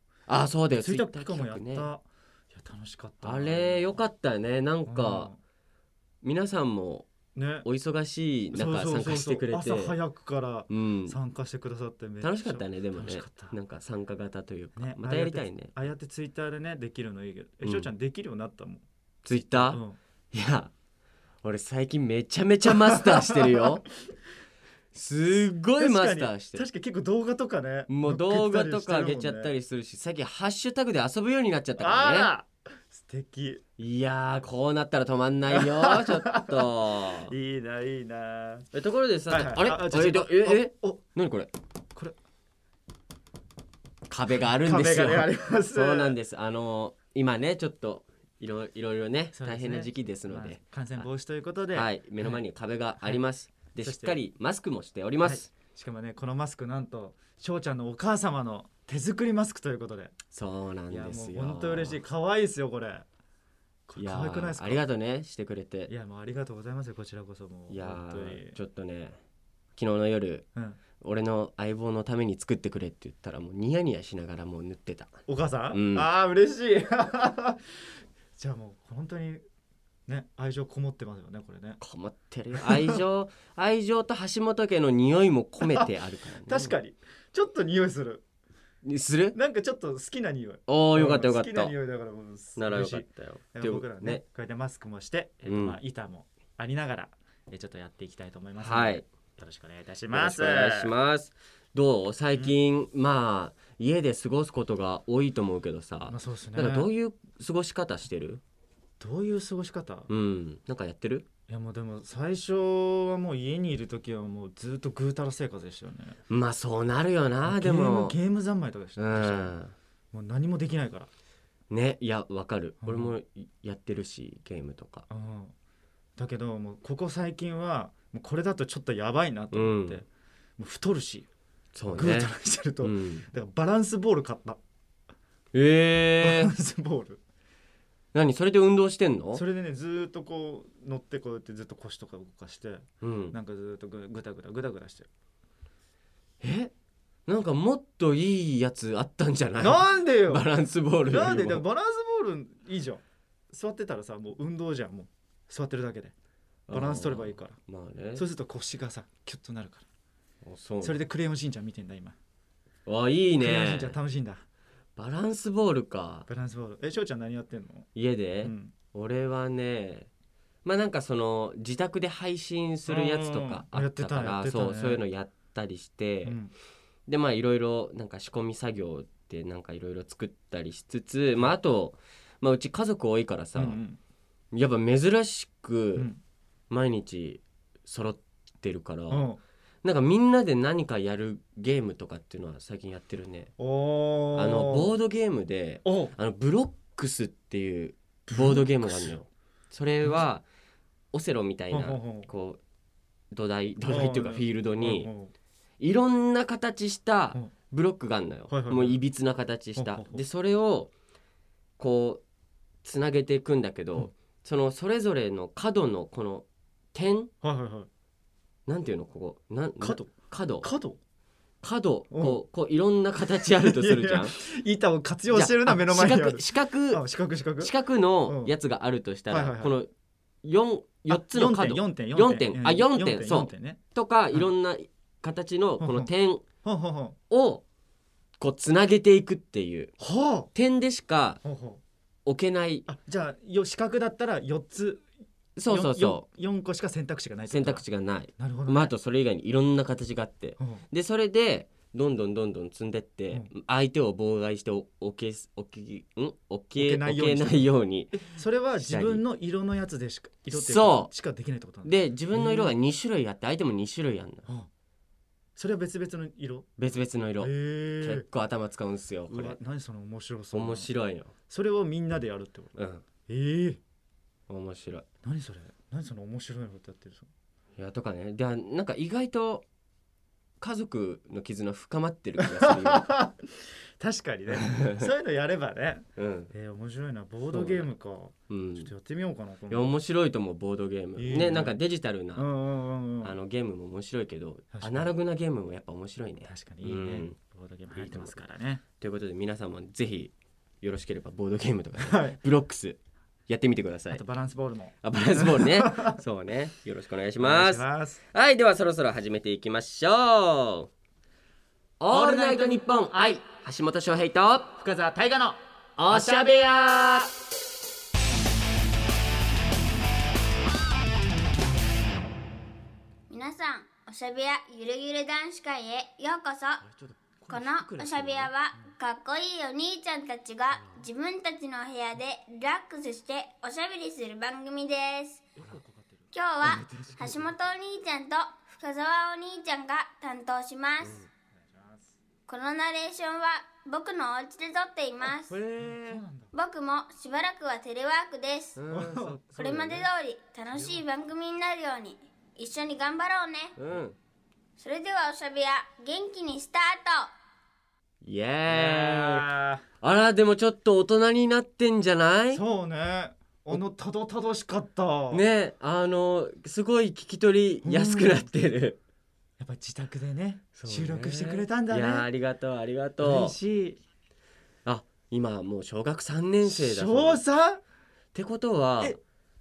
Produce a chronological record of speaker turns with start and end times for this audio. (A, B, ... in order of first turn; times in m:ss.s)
0:00.3-0:01.9 A
0:00.8-0:04.0 B
0:03.2-0:05.3 A
0:04.9-0:05.4 B
0:06.2-0:07.1 A
0:07.3-0:07.6 B
0:07.6-0:10.0 A
0:08.5-0:13.5 B
0:10.7-0:11.2 A
0:12.2-0:15.7 A
0:14.8-0:18.8 B
0:17.6-0:17.9 A
0:19.2-0:20.7 A
0:19.5-0:20.0 B
0:21.4-0:23.8 A
0:22.6-0:24.1 B
0:24.9-0:26.6 A
0:25.3-0:29.5 B
0:27.9-0:32.3 A
0:31.8-0:33.6 B
0:33.8-0:37.3 A
0:35.5-0:38.7 B
0:38.7-0:41.5 A
0:39.3-0:41.0 B
0:44.1-0:51.0 A
0:44.4-0:46.2 B
0:49.3-0:52.4 B
0:51.7-0:55.5 A
0:53.8-0:54.2 B
0:55.2-1:00.1 B
1:00.3-1:02.0 A
1:00.9-1:03.0 B
1:03.9-1:04.8 B
1:04.0-1:05.9 A
1:05.9-1:08.6 B
1:07.7-1:09.2 A
1:09.8-1:10.4 A
1:10.5-1:10.8 B
1:11.0-1:15.1 A
1:15.3-1:17.8 B
1:15.7-1:16.0 A
1:18.4-1:19.4 B
1:20.1-1:21.8 B
1:21.8-1:26.7 A
1:22.6-1:23.0 B
1:26.4-1:28.2 B
1:28.8-1:29.4 A
1:29.3-1:40.9 B
1:30.7-1:31.7 A
1:32.6-1:34.2 A
1:35.4-1:35.8 A
1:38.6-1:39.0 A
1:40.1-1:48.4 A
1:46.1-1:46.9 B
1:49.0-1:50.1 B
1:50.1-1:51.3 A
1:51.5-1:56.2 B
1:56.3-1:58.2 A
1:57.4-1:59.5 B
1:59.0-1:59.7 A
2:00.1-2:01.1 B
2:01.7-2:05.1 A
2:02.8-2:03.1 B
2:05.1-2:05.5 B
2:06.2-2:10.0 B
2:09.5-2:10.0 A
2:10.6-2:11.3 B
2:11.7-2:13.2 A
2:11.9-2:14.6 B
2:15.5-2:16.5 A
2:16.2-2:17.2 B
2:18.1-2:19.4 A
2:19.3-2:25.1 B
2:23.0-2:23.4 A
2:26.4-2:26.7 A
2:27.3-2:31.6 A
2:29.6-2:30.5 B
2:31.1-2:36.1 B
2:36.7-2:38.2 A
2:36.7-2:37.6 B
2:38.2-2:39.8 B
2:40.4-2:41.0 A
2:40.8-2:42.2 B
2:42.8-2:44.0 A
2:43.4-2:44.4 B
2:45.0-2:46.3 A
2:46.3-2:47.9 B
2:47.9-2:50.1 A
2:48.4-2:48.7 B
2:50.6-2:56.4 A
2:52.9-2:55.0 B
2:56.2-2:56.5 B
2:57.1-3:03.8 A
3:03.6-3:04.0 B
3:04.5-3:06.1 A
3:06.7-3:09.3 A
3:09.1-3:09.4 B
3:09.8-3:13.5 A
3:13.6-3:14.9 B
3:14.3-3:20.4 A
3:15.8-3:16.1 B
3:18.3-3:19.2 B
3:21.1-3:22.6 A
3:21.7-3:22.3 B
3:23.3-3:25.1 A
3:23.9-3:25.3 B
3:25.8-3:30.9 A
3:28.5-3:29.0 B
3:29.8-3:30.2 B
3:31.8-3:32.2 A
3:32.8-3:37.3 A
3:37.4-3:37.9 B
3:38.7-3:40.7 A
3:39.8-3:41.0 B
3:41.6-3:44.3 A
3:42.1-3:42.4 B
3:43.3-3:47.7 B
3:45.3-3:47.0 A
3:47.6-3:49.9 A
3:48.2-3:48.5 B
3:49.3-3:49.7 B
3:50.4-3:56.4 A
3:51.1-3:53.8 B
3:55.8-3:56.1 B
3:56.6-3:57.2 B
3:57.3-3:57.6 A
3:58.4-3:59.9 A
4:00.0-4:00.5 B
4:00.5-4:01.4 A
4:01.4-4:01.8 B
4:02.2-4:02.9 A
4:02.9-4:05.1 B
4:05.6-4:06.2 A
4:05.7-4:07.8 B
4:07.5-4:18.3 A
4:08.4-4:08.9 B
4:10.6-4:10.8 B
4:16.8-4:22.7 B
4:18.8-4:19.2 A
4:20.5-4:21.1 A
4:21.8-4:24.5 A
4:25.6-4:26.7 B
4:26.8-4:29.6 A
4:27.4-4:28.2 B
4:29.3-4:30.9 B
4:30.5-4:31.3 A
4:31.5-4:32.8 B
4:32.8-4:33.0 A
4:33.3-4:33.8 B
4:34.5-4:35.0 A
4:35.2-4:37.3 B
4:37.8-4:39.6 A
4:40.6-4:43.1 A
4:42.4-4:43.5 B
4:44.0-4:49.9 B
4:44.5-4:45.1 A
4:46.2-4:46.5 A
4:47.5-4:47.9 A
4:48.5-4:48.9 A
4:49.7-4:52.5 A
4:51.2-4:51.8 B
4:52.4-4:53.3 B
4:53.2-4:57.3 A
4:54.7-4:55.1 B
4:56.4-4:58.8 B
4:58.0-4:58.3 A
4:59.0-5:04.2 A
5:02.0-5:02.4 B
5:04.1-5:06.2 B
5:05.0-5:10.9 A
5:07.4-5:08.2 B
5:12.0-5:14.7 A
5:12.1-5:13.4 B
5:14.8-5:17.2 B
5:16.0-5:17.3 A
5:23.3-5:26.8 C
5:27.4-5:28.5 B
5:27.5-5:35.4 C
5:35.6-5:37.5 B
5:36.3-5:41.2 C
5:36.7-5:37.5 A
5:41.5-5:42.2 B
5:42.5-5:45.6 C
5:45.5-5:46.2 A
5:45.7-5:46.5 B
5:46.5-5:48.8 C
5:48.8-5:50.0 A
5:48.9-5:50.0 B
5:49.5-5:53.8 C
5:50.7-5:51.0 B
5:53.8-5:54.2 A
5:54.8-5:57.3 C
5:58.2-5:59.5 A
5:58.7-5:59.8 B
6:00.0-6:02.6 A
6:02.5-6:05.4 B
6:05.3-6:09.0 A
6:07.8-6:08.5 B
6:09.6-6:12.3 B
6:10.8-6:13.6 A
6:13.2-6:14.0 B
6:14.8-6:17.4 A
6:16.6-6:17.8 B
6:18.3-6:19.2 A